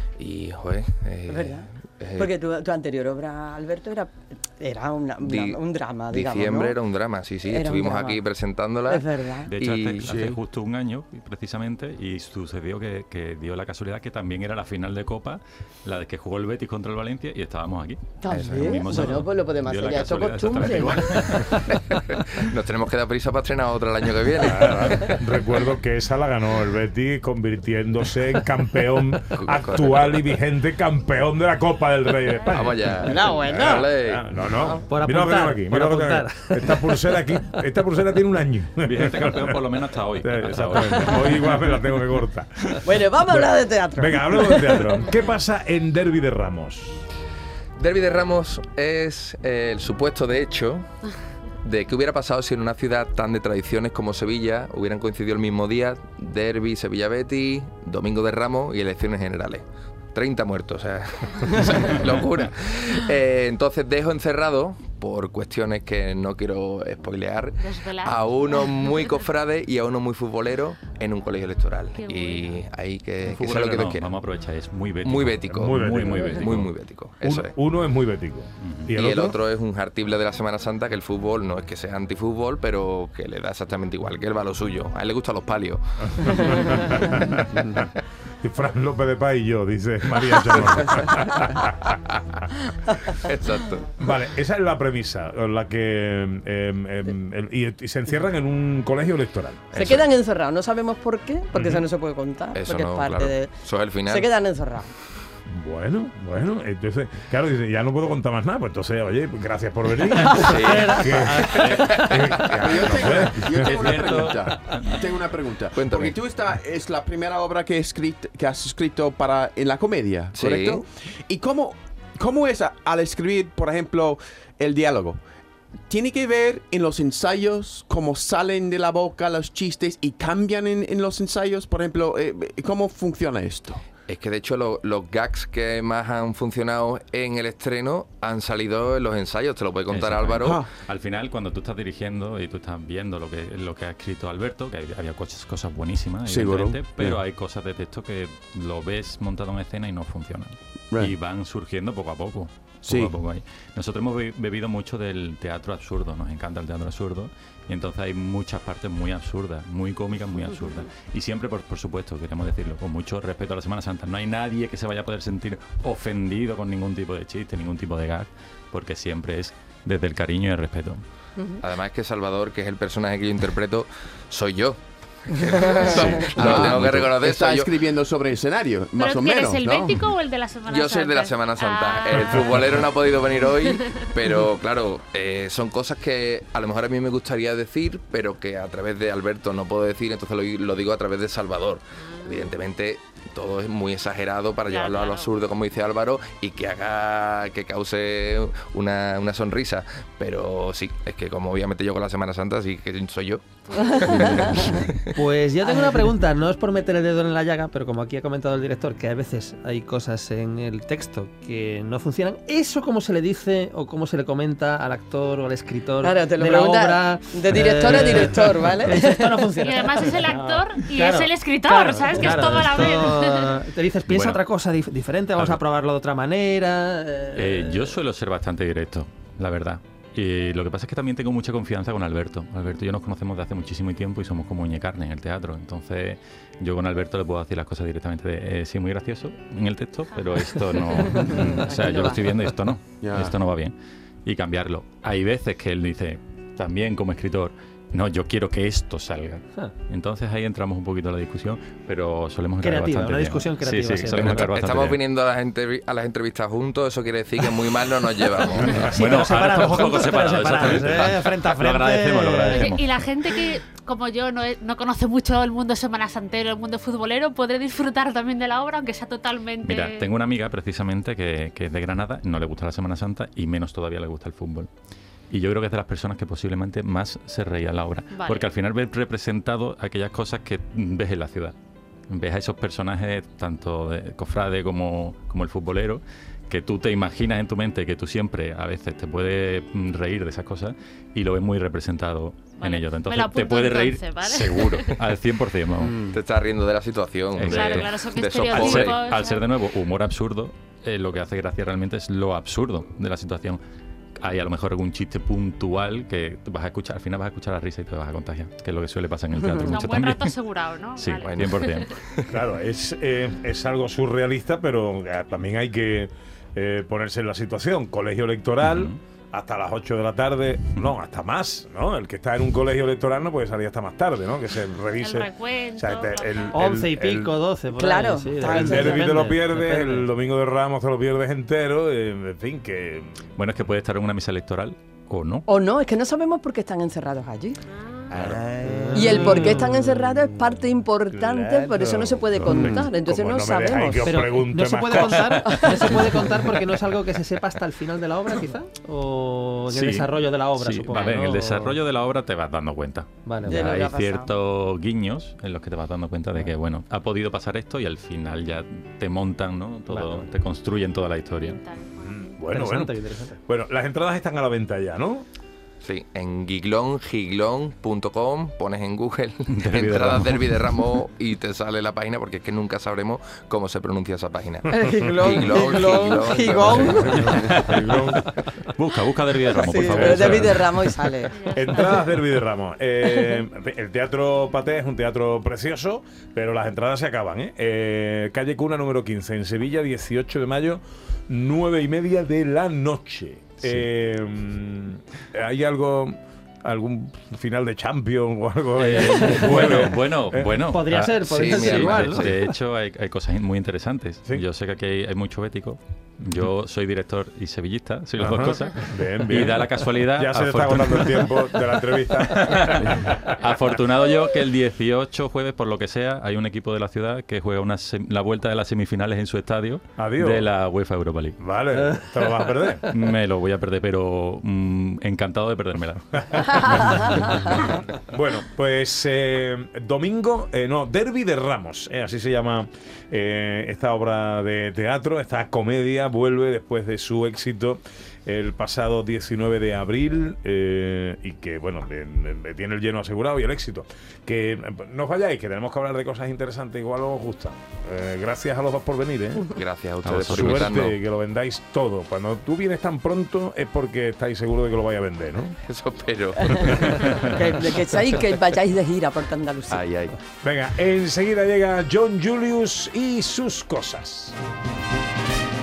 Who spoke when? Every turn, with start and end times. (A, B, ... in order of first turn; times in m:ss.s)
0:00.2-0:02.3 A
0:01.3-0:06.8 B
0:05.2-0:09.1 A
0:07.4-0:08.2 B
0:08.9-0:09.5 B
0:09.4-0:21.8 C
0:09.6-0:10.1 A
0:10.0-0:10.4 D
0:18.2-0:21.2 B
0:18.3-0:18.8 A
0:21.3-0:25.2 A
0:24.4-0:39.6 E
0:29.3-0:30.3 A
0:32.5-0:34.2 A
0:33.0-0:33.9 B
0:34.7-0:37.1 F
0:38.8-0:41.6 C
0:40.2-0:42.8 E
0:42.8-0:45.0 B
0:43.3-0:47.0 E
0:47.8-0:50.8 A
0:51.6-1:14.1 A
1:07.6-1:09.0 G
1:11.9-1:12.6 G
1:13.2-1:16.6 C
1:15.0-1:15.8 A
1:15.5-1:16.7 E
1:16.4-1:17.5 A
1:17.2-1:19.4 E
1:18.6-1:19.0 C
1:19.0-1:27.2 A
1:26.2-1:27.8 E
1:28.4-1:31.9 E
1:33.2-1:34.0 A
1:34.0-1:39.7 E
1:39.7-1:40.0 A
1:39.7-1:44.9 B
1:41.5-1:41.8 E
1:42.5-1:44.3 A
1:45.5-1:53.8 E
1:50.2-1:52.5 F
1:50.4-1:52.7 A
1:51.5-1:52.0 C
1:52.5-2:05.2 D
1:52.9-1:55.0 C
1:55.7-1:56.2 A
2:00.3-2:00.8 A
2:05.9-2:13.8 D
2:14.1-2:20.6 A
2:19.9-2:51.0 C
2:20.4-2:20.7 D
2:26.2-2:27.2 D
2:32.8-2:33.1 D
2:51.6-2:57.8 A
2:55.9-3:00.1 D
2:59.0-3:02.7 G
3:00.7-3:25.0 A
3:03.3-3:04.4 G
3:12.0-3:12.6 G
3:14.6-3:15.4 G
3:23.9-3:24.8 B
3:25.1-3:48.0 F
3:25.6-3:26.0 B
3:36.0-3:39.5 B
3:39.6-3:43.6 G
3:42.2-3:42.6 C
3:44.1-3:44.4 C
3:45.4-3:45.6 C
3:47.3-4:03.7 C
4:00.8-4:01.4 G
4:01.2-4:02.1 B
4:03.0-4:03.4 D
4:04.2-4:15.0 C
4:12.6-4:14.5 F
4:14.3-4:19.0 A
4:18.3-4:22.6 F
4:18.9-4:23.3 C
4:22.5-4:30.1 G
4:29.6-4:34.7 C
4:35.3-4:41.5 C
4:38.1-4:38.5 G
4:42.1-4:56.0 C
4:52.6-4:55.0 G
4:55.8-4:56.2 D
4:56.1-4:59.0 A
4:57.4-5:03.6 C
4:57.5-4:59.5 G
5:04.2-5:10.4 C
5:09.6-5:11.9 G
5:11.0-5:11.9 C
5:11.2-5:12.3 A
5:12.3-5:27.3 E
5:18.6-5:19.0 C
5:24.9-5:26.6 G
5:26.5-5:30.1 F
5:27.7-5:29.0 B
5:28.4-5:33.2 E
5:33.4-5:35.4 C
5:35.5-5:37.6 B
5:38.1-5:39.0 E
5:38.6-5:39.7 F
5:38.9-5:44.2 B
5:41.1-5:46.1 E
5:42.5-5:42.8 F
5:44.1-5:51.8 F
5:45.3-5:46.3 B
5:49.7-6:01.6 C
5:53.2-5:53.8 F
5:53.4-5:54.3 B
5:59.9-6:00.2 F
6:01.3-6:02.5 G
6:02.0-6:02.9 E
6:02.5-6:03.4 F
6:03.4-6:05.2 E
6:05.8-6:17.3 A
6:09.5-6:10.7 C
6:14.7-6:17.7 B
6:15.0-6:15.3 E
6:16.7-6:18.0 C
6:16.7-6:18.3 E
6:18.6-6:20.8 C
6:19.5-6:21.3 B
6:19.8-6:20.7 E
6:21.3-6:21.9 G
6:21.5-6:40.6 E
6:38.8-7:01.4 C
6:39.2-6:39.8 F
6:40.7-6:42.4 F
6:41.2-6:42.4 A
6:48.2-6:53.5 E
7:00.0-7:00.5 E
7:01.4-7:02.9 E
7:01.8-7:02.3 F
7:02.9-7:07.6 C
7:07.9-7:29.5 E
7:29.4-7:31.0 A
7:30.0-7:30.8 C
7:30.1-7:35.6 E
7:35.6-7:36.6 A
7:36.5-7:39.8 B
7:36.6-7:37.3 E
7:39.7-7:40.2 A
7:40.4-7:44.3 E